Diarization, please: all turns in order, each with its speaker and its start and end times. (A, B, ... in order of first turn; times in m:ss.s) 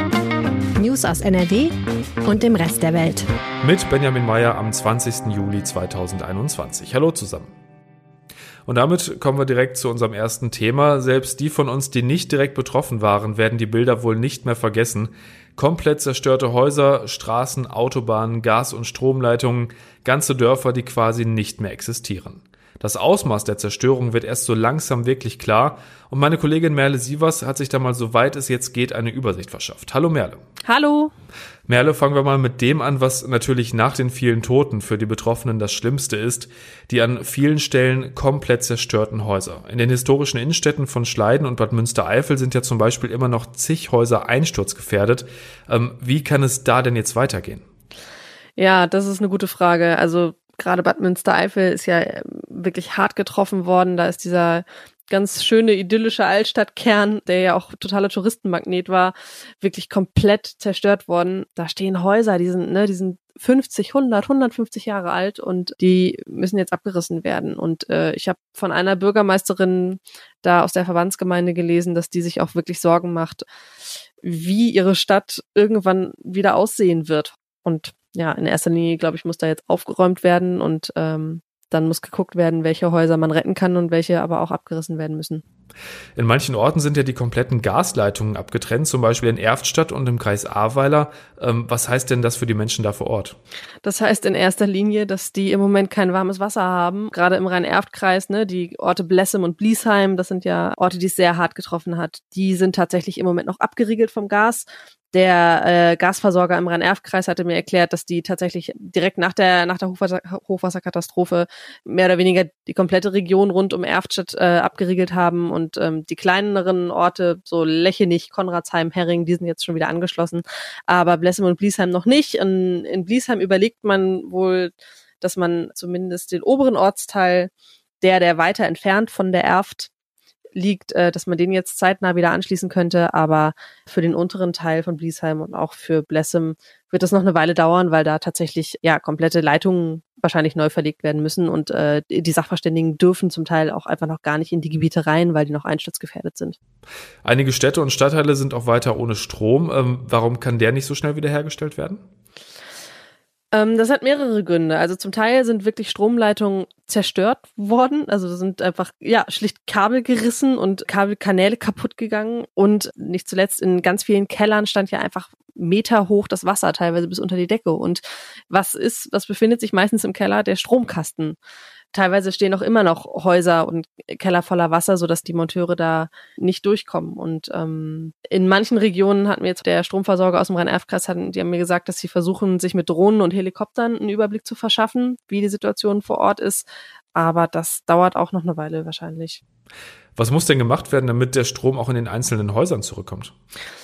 0:00.8-0:03.3 A
0:03.6-0:07.5 B
0:08.7-0:30.4 B
0:30.7-0:31.1 C
0:31.7-0:47.6 B
0:48.6-1:13.5 C
1:14.2-1:25.4 C
1:26.2-1:33.4 B
1:33.8-2:09.9 C
2:10.6-2:26.6 C
2:27.2-2:32.0 B
2:33.5-2:51.4 C
2:51.9-3:09.4 C
3:10.2-3:13.3 B